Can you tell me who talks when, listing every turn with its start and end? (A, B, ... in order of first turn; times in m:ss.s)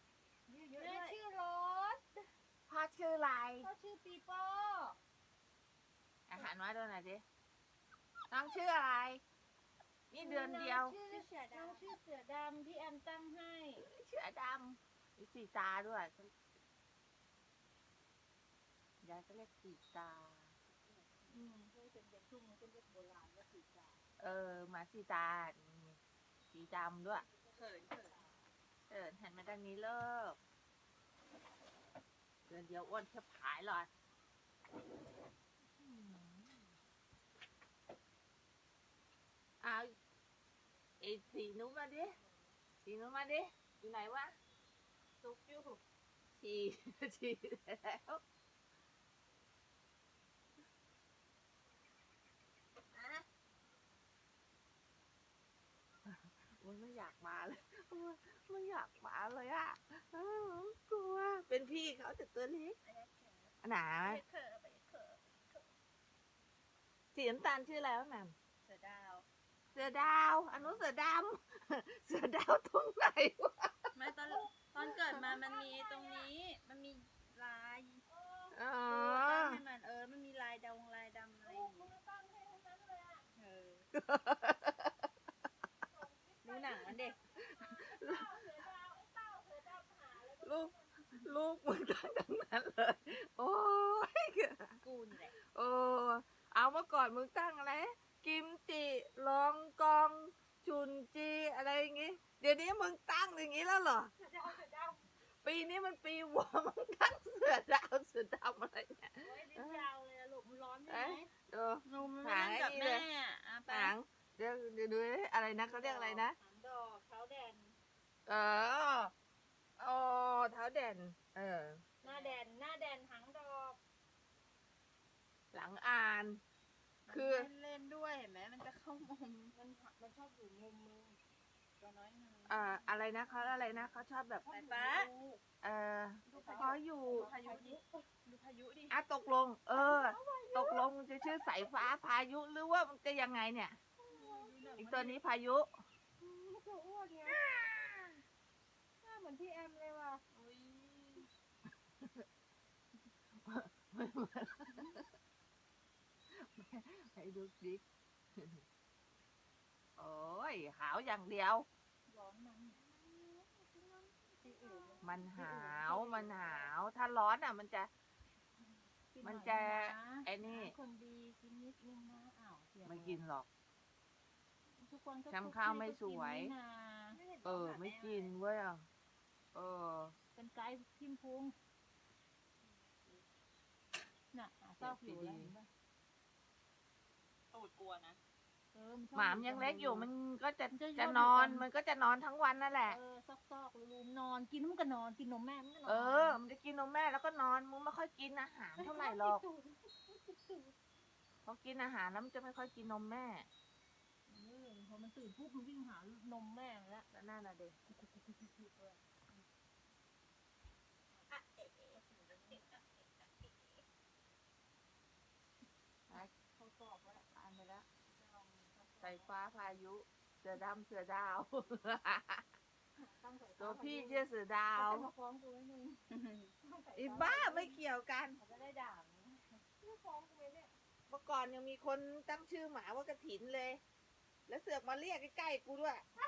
0:00.5-0:01.2 A
0:00.5-0:02.1 B
0:02.7-0:03.7 C
0:03.6-0:05.0 B
0:06.3-0:07.2 C
0:08.3-0:09.2 C
0:10.1-0:11.0 C
0:10.2-0:13.9 B
0:11.0-0:12.0 A
0:13.8-0:16.3 C
0:19.0-0:20.5 C
0:21.2-0:24.1 B
0:24.2-0:26.0 C
0:26.5-0:27.2 C
0:27.2-0:28.4 B
0:27.5-0:28.2 A
0:28.9-0:30.4 C
0:32.5-0:33.9 C
0:35.8-0:36.7 C
0:39.6-0:39.9 C
0:41.0-0:42.2 C
0:42.0-0:42.4 B
0:42.8-0:44.3 C
0:46.4-0:48.2 C
0:52.9-0:53.2 A
0:56.0-1:02.8 C
1:02.8-1:05.7 A
1:03.6-1:04.2 C
1:07.1-1:08.3 C
1:08.6-1:09.3 A
1:09.8-1:13.8 C
1:10.5-1:10.8 A
1:14.0-1:18.0 A
1:14.3-1:16.3 B
1:18.1-1:18.6 B
1:18.5-1:19.6 C
1:18.9-1:21.9 A
1:21.4-1:23.3 B
1:23.4-1:23.9 A
1:24.0-1:24.9 C
1:25.8-1:31.3 B
1:26.4-1:27.2 A
1:27.4-1:28.3 C
1:30.4-1:34.8 C
1:34.8-1:35.4 A
1:35.5-1:44.1 C
1:44.2-1:45.1 B
1:45.3-1:49.9 C
1:49.2-1:51.3 B
1:50.9-1:53.1 C
1:51.8-1:54.0 A
1:53.7-1:56.4 C
1:55.6-1:57.8 B
1:58.3-1:59.1 C
1:59.8-2:01.8 C
2:02.0-2:02.4 A
2:02.0-2:03.8 B
2:05.5-2:06.4 C
2:07.1-2:09.5 A
2:07.1-2:07.5 C
2:09.5-2:11.2 B
2:11.8-2:12.8 A
2:12.5-2:14.5 C
2:13.1-2:14.0 B
2:14.4-2:15.1 A
2:14.6-2:15.4 B
2:15.6-2:17.3 C
2:16.3-2:18.1 B
2:16.3-2:19.0 A
2:18.9-2:23.8 C
2:19.7-2:21.8 B
2:24.0-2:25.2 B
2:24.1-2:25.0 A
2:24.8-2:25.7 C
2:26.2-2:27.5 B
2:27.3-2:28.2 C
2:29.0-2:30.2 B
2:30.3-2:31.3 A
2:32.0-2:32.2 C
2:33.4-2:35.0 C
2:36.3-2:37.8 C
2:38.4-2:38.6 C
2:40.0-2:41.7 C
2:42.1-2:42.8 B
2:42.8-2:45.0 A
2:44.4-2:46.7 B
2:45.0-2:47.9 C
2:49.1-2:53.2 B
2:49.2-2:50.8 C
2:52.8-2:53.5 C
2:54.8-2:57.2 B
2:55.3-2:56.5 C
2:57.1-2:58.4 A
2:57.4-2:58.8 C
2:59.5-3:00.2 C
3:00.4-3:01.6 B
3:02.6-3:03.2 A
3:04.3-3:05.7 B
3:04.8-3:05.5 C
3:07.5-3:08.2 A
3:08.7-3:10.1 B
3:09.2-3:13.0 C
3:10.7-3:11.7 B
3:12.9-3:16.4 B
3:15.9-3:19.4 C
3:18.8-3:20.7 B
3:21.4-3:23.5 C
3:24.3-3:27.1 B
3:27.1-3:27.8 C
3:27.9-3:29.4 B
3:31.3-3:32.0 A
3:31.9-3:32.7 B
3:36.2-3:39.3 B
3:37.3-3:37.8 C
3:39.0-3:42.4 C
3:43.0-3:44.2 B
3:43.6-3:45.1 C
3:44.8-3:46.0 B
3:46.1-3:46.5 A
3:46.6-3:47.8 B
3:47.0-3:48.4 C
3:48.4-3:50.7 B
3:51.1-3:53.8 C
3:54.5-3:56.0 C